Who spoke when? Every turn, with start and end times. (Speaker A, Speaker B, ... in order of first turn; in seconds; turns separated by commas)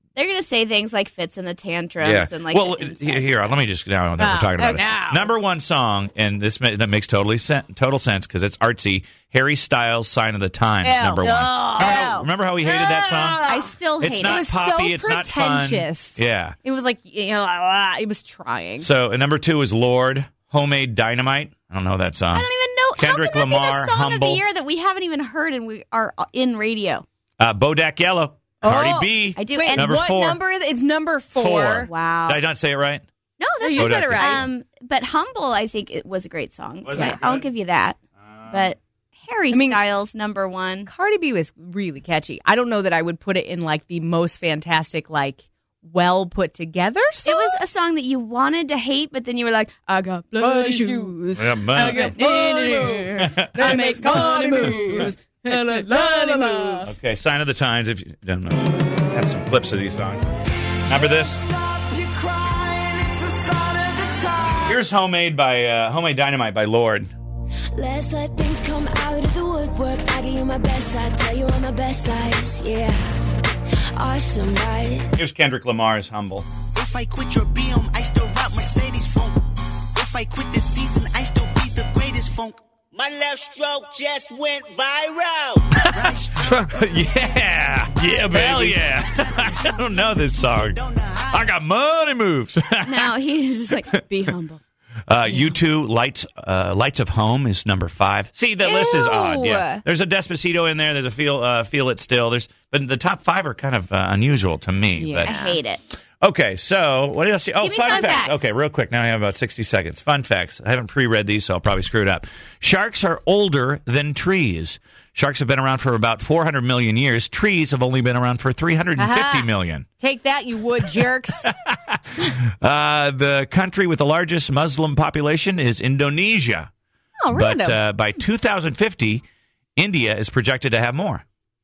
Speaker A: 0.1-3.5, Speaker B: 2.0-16.6, Speaker C: 4.2-5.2, Speaker A: 4.6-5.0, Speaker C: 10.8-18.9, Speaker A: 10.9-12.3, Speaker A: 13.4-14.5, Speaker B: 18.8-24.4, Speaker A: 22.3-27.0, Speaker B: 27.4-30.4, Speaker C: 28.6-31.9, Speaker A: 29.4-29.9, Speaker B: 31.3-33.0, Speaker A: 31.8-32.4, Speaker A: 33.4-40.9, Speaker C: 33.6-34.5, Speaker B: 33.7-34.5, Speaker B: 36.8-37.5, Speaker C: 36.9-37.2, Speaker B: 38.2-38.7, Speaker C: 39.5-39.8, Speaker C: 40.9-47.6, Speaker A: 47.2-55.0, Speaker C: 50.4-56.9, Speaker B: 51.3-52.1, Speaker B: 53.2-53.6, Speaker A: 55.8-56.7, Speaker B: 56.8-60.2, Speaker B: 60.9-61.4, Speaker D: 61.0-64.7, Speaker B: 64.6-67.1, Speaker D: 67.7-73.2, Speaker D: 73.9-75.1, Speaker B: 75.2-76.5, Speaker E: 76.7-79.4, Speaker E: 79.9-87.2, Speaker B: 85.8-90.8, Speaker E: 87.9-89.8, Speaker E: 90.5-91.5, Speaker B: 91.3-93.1, Speaker A: 92.8-94.6, Speaker B: 95.1-105.4, Speaker C: 98.6-99.8, Speaker C: 105.0-105.6, Speaker A: 105.2-105.8, Speaker B: 106.2-119.9, Speaker A: 107.6-108.5, Speaker C: 119.0-121.5, Speaker B: 120.8-126.7, Speaker C: 127.2-127.8, Speaker B: 127.3-129.2, Speaker B: 129.8-131.2